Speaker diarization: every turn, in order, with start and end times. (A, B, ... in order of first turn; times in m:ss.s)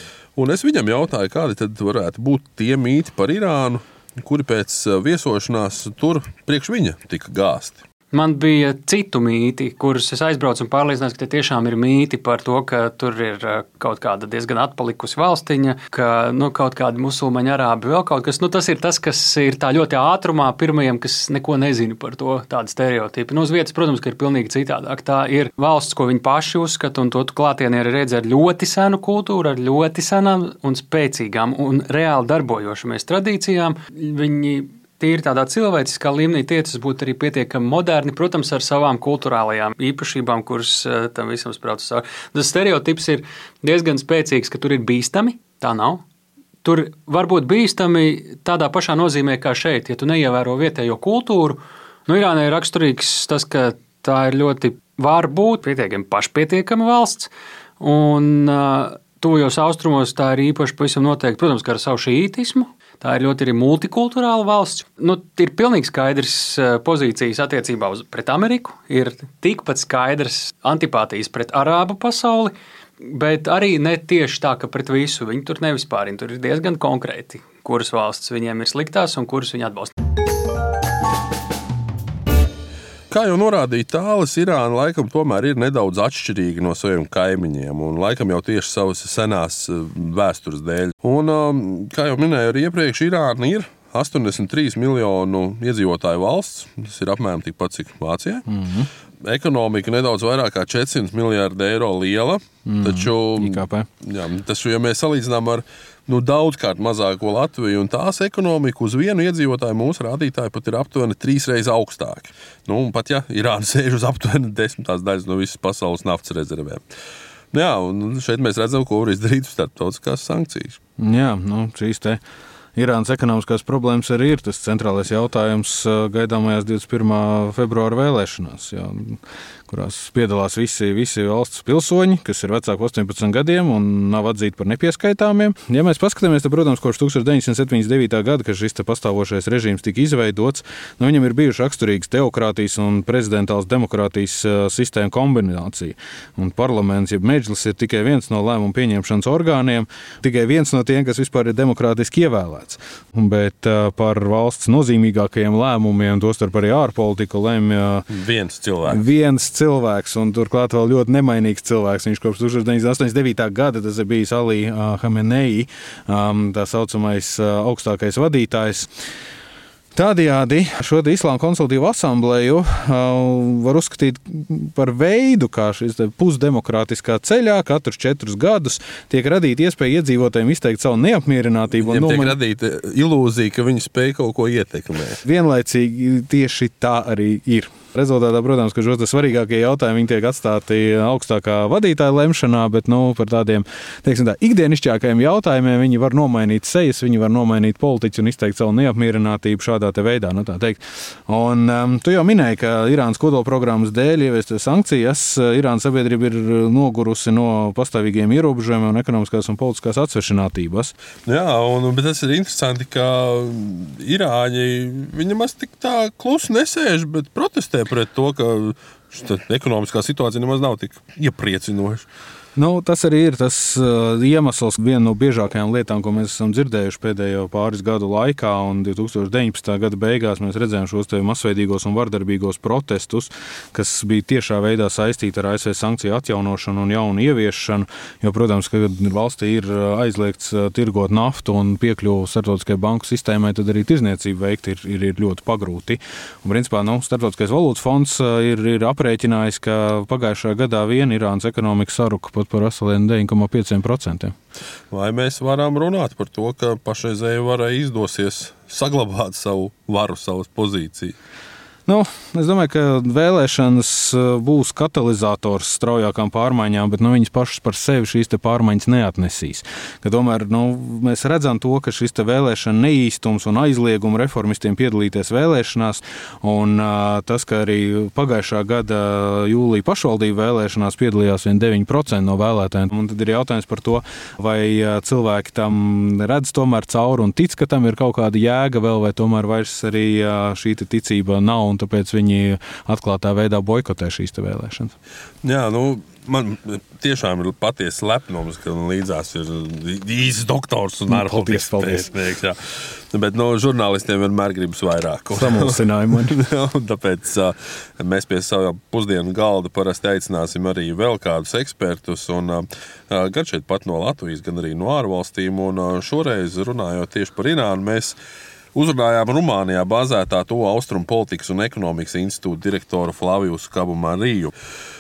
0:00.4-0:07.8 A
0:08.1-0:46.0 B
0:46.6-1:19.9 B
1:23.1-1:38.4 A
1:38.5-1:38.9 C
1:39.2-1:56.8 A
1:42.6-1:43.9 C
1:57.5-2:00.8 A
2:01.0-2:02.2 C
2:02.8-2:38.1 C
2:38.1-2:39.0 A
2:38.9-2:48.9 C
2:50.0-3:02.4 C
3:01.8-3:05.2 A
3:05.2-3:30.9 C
3:31.2-3:42.1 A
3:42.6-4:14.3 C
4:14.9-4:21.2 A
4:21.9-4:55.0 C
4:55.4-5:02.6 A
5:01.1-5:02.1 C
5:03.1-5:18.2 A
5:05.3-5:06.4 C
5:18.8-5:24.5 A